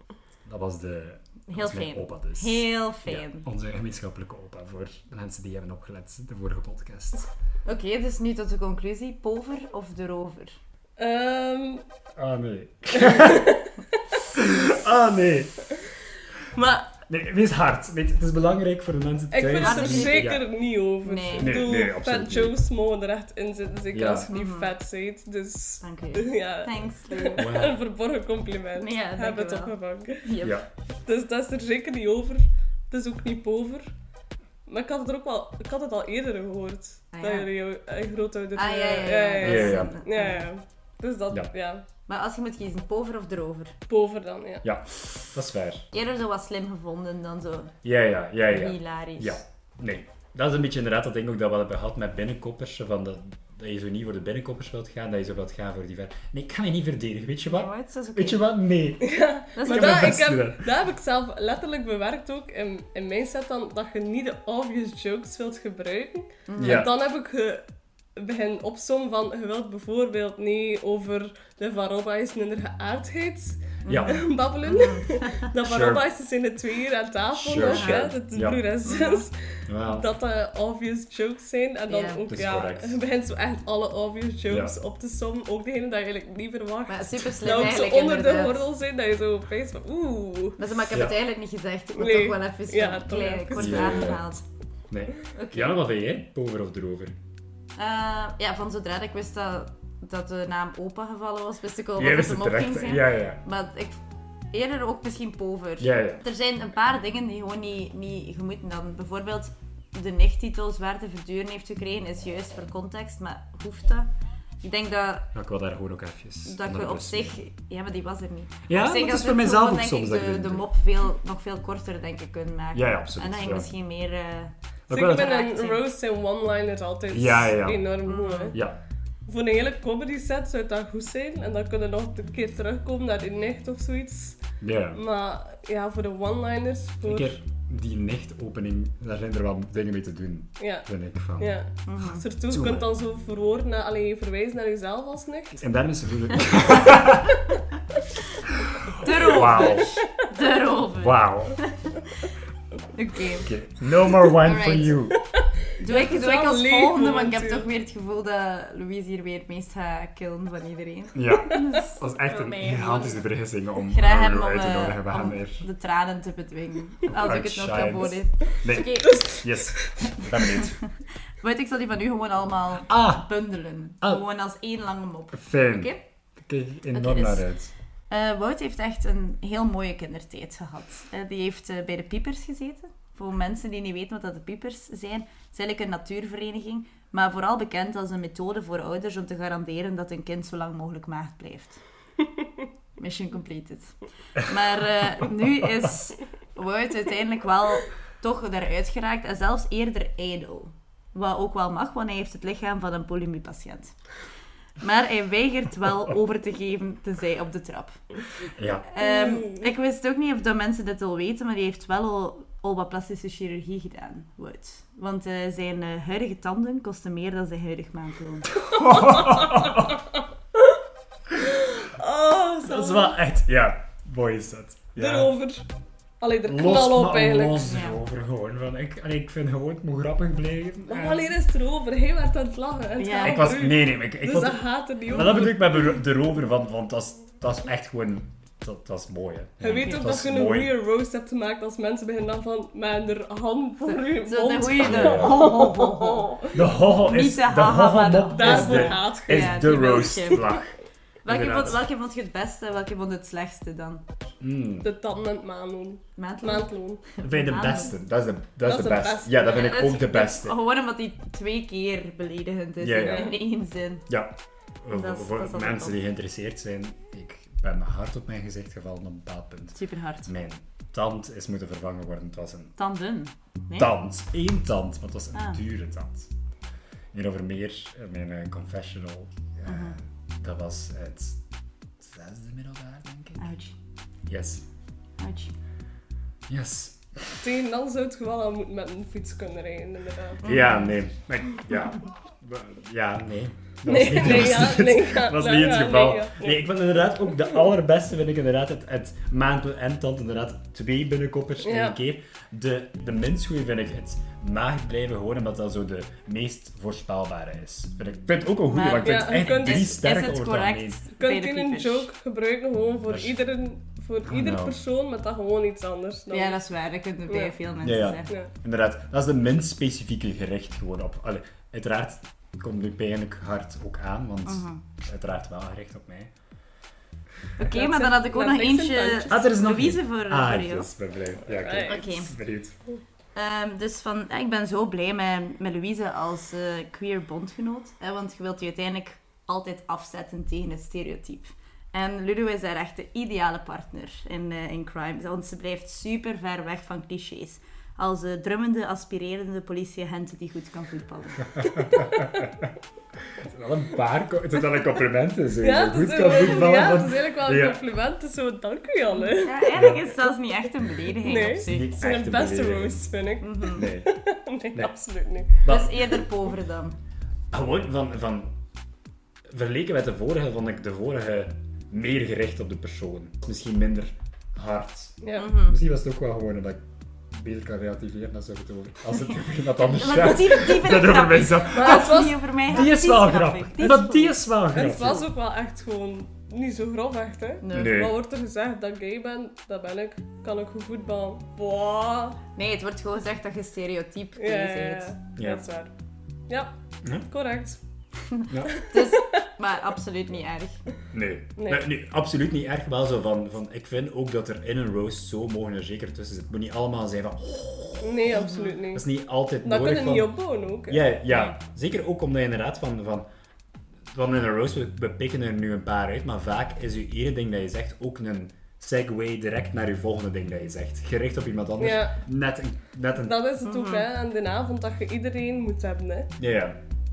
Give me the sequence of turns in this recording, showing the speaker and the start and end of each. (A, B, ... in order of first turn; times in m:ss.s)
0:00.4-0:07.3 A
0:01.5-0:03.4 B
0:07.6-0:10.6 B
0:11.0-0:11.8 C
0:12.2-0:13.6 A
0:12.9-0:14.3 C
0:14.3-0:15.7 A
0:16.5-0:17.0 C
0:17.1-0:20.4 A
0:19.3-0:30.3 C
0:19.6-0:20.3 B
0:21.0-0:21.6 B
0:21.3-0:22.6 A
0:23.9-0:24.3 A
0:24.3-0:24.7 B
0:25.8-0:27.5 B
0:27.4-0:27.8 A
0:28.8-0:30.6 B
0:30.4-0:30.7 A
0:31.0-0:33.9 C
0:34.6-0:41.8 C
0:37.1-0:37.5 B
0:38.6-0:40.5 B
0:39.4-0:40.0 A
0:42.1-0:43.7 B
0:43.9-0:44.6 C
0:44.6-0:45.9 A
0:45.9-0:47.7 B
0:47.8-1:00.7 A
0:48.5-0:49.4 B
0:57.5-0:58.4 B
0:59.0-1:30.6 C
0:59.5-1:00.2 B
1:06.5-1:06.9 B
1:06.6-1:06.9 A
1:13.8-1:15.5 B
1:13.9-1:14.3 A
1:15.6-1:16.0 A
1:17.3-1:18.7 A
1:17.6-1:18.1 B
1:18.9-1:19.2 B
1:19.6-1:20.1 A
1:21.9-1:22.2 B
1:22.3-1:23.0 A
1:24.5-1:24.7 A
1:26.9-1:28.7 B
1:30.6-1:34.4 B
1:31.9-1:34.2 C
1:33.5-1:34.2 A
1:34.9-1:37.1 A
1:35.3-1:35.8 B
1:37.8-1:55.3 B
1:42.0-1:43.4 A
1:45.8-1:46.2 A
1:55.3-1:57.4 A
1:56.4-2:05.8 B
1:58.7-2:00.7 A
2:02.7-2:03.7 A
2:04.9-2:05.3 A
2:04.9-2:08.6 C
2:07.1-2:07.8 A
2:08.0-2:08.6 B
2:08.5-2:08.8 A
2:09.3-2:14.4 C
2:14.6-2:15.0 A
2:14.9-2:17.4 C
2:17.0-2:21.6 A
2:20.6-2:20.8 C
2:21.4-2:25.6 C
2:21.8-2:22.2 B
2:22.5-2:22.9 A
2:25.6-2:27.4 A
2:28.5-2:30.0 A
2:29.0-2:32.0 B
2:29.3-2:30.1 C
2:31.0-2:31.6 A
2:32.9-2:33.5 B
2:33.4-2:35.2 A
2:34.2-2:35.0 B
2:35.8-2:43.2 B
2:35.8-2:37.7 C
2:41.1-2:45.6 A
2:43.9-2:49.3 B
2:47.2-2:50.8 A
2:49.0-2:50.1 C
2:50.4-2:56.0 B
2:52.9-2:53.3 A
2:55.3-2:57.7 A
2:56.9-2:57.4 B
2:58.1-3:11.8 B
3:13.0-3:23.9 B
3:24.8-3:28.0 B
3:28.6-3:28.9 A
3:28.9-3:38.6 B
3:29.0-3:29.6 C
3:38.6-3:40.0 A
3:38.8-3:39.9 C
3:41.4-3:43.2 C
3:42.6-3:45.3 A
3:45.0-3:45.7 C
3:46.2-3:47.7 C
3:46.4-3:51.3 A
3:47.6-3:48.0 B
3:50.9-3:55.8 C
3:53.0-3:53.4 B
3:53.2-4:00.7 A
3:59.6-4:00.0 B
3:59.6-4:06.5 C
4:03.8-4:10.5 B
4:04.7-4:05.6 A
4:06.5-4:11.8 A
4:08.4-4:10.0 C
4:11.2-4:14.0 B
4:14.4-4:14.9 A
4:14.8-4:17.0 C
4:16.2-4:16.7 B
4:17.2-4:17.9 B
4:17.2-4:20.6 A
4:18.6-4:20.0 C
4:19.4-4:24.1 B
4:22.8-4:23.3 A
4:23.0-4:23.3 C
4:24.1-4:32.8 A
4:24.9-4:26.0 B
4:29.7-4:30.3 B
4:32.8-4:33.9 B
4:33.8-4:36.3 A
4:37.1-4:41.4 A
4:39.6-4:40.0 B
4:42.0-4:43.5 A
4:43.4-4:43.7 B
4:44.3-4:44.6 A
4:45.2-4:45.5 B
4:46.5-4:47.4 A
4:47.4-4:50.4 C
4:50.4-4:50.9 B
4:50.4-5:11.0 A
4:53.8-4:56.6 C
5:01.6-5:02.0 C
5:08.7-5:12.1 B
5:09.0-5:10.0 C
5:11.2-5:16.6 C
5:13.1-5:13.4 A
5:14.2-5:14.8 A
5:16.3-5:18.3 B
5:17.3-5:17.6 C
5:17.8-5:26.3 A
5:24.4-5:24.8 B
5:27.6-5:30.9 B
5:27.7-5:29.4 C
5:29.3-5:32.8 A
5:31.5-5:32.1 C
5:31.8-5:32.3 B
5:33.3-5:51.7 B
5:51.6-5:52.7 A
5:53.3-5:57.8 A
5:55.6-5:59.7 C
5:59.2-6:02.0 B
5:59.7-6:00.1 A
6:01.2-6:05.6 C
6:01.6-6:03.0 A
6:03.4-6:03.9 B
6:03.7-6:04.1 A
6:05.6-6:06.2 A
6:05.6-6:07.0 B
6:07.5-6:08.6 A
6:09.5-6:25.2 A
6:15.2-6:15.5 C
6:15.4-6:15.7 B
6:19.8-6:24.3 B
6:21.7-6:22.4 C
6:24.7-6:32.4 C
6:27.6-6:28.0 B
6:27.7-6:28.1 A
6:32.5-6:35.1 B
6:34.4-6:35.9 C
6:35.4-6:35.6 A
6:37.3-6:37.8 C
6:38.3-6:40.8 B
6:38.5-6:38.8 A
6:38.7-6:39.4 C
6:41.1-6:50.3 A
6:41.6-6:41.8 C
6:48.0-6:49.0 C
6:48.3-6:48.7 B
6:49.6-6:51.0 C
6:50.9-6:53.2 A
6:51.3-6:51.5 B
6:54.1-7:03.4 A
7:01.8-7:02.2 C
7:03.2-7:06.3 C
7:03.6-7:04.0 B
7:06.4-7:06.8 A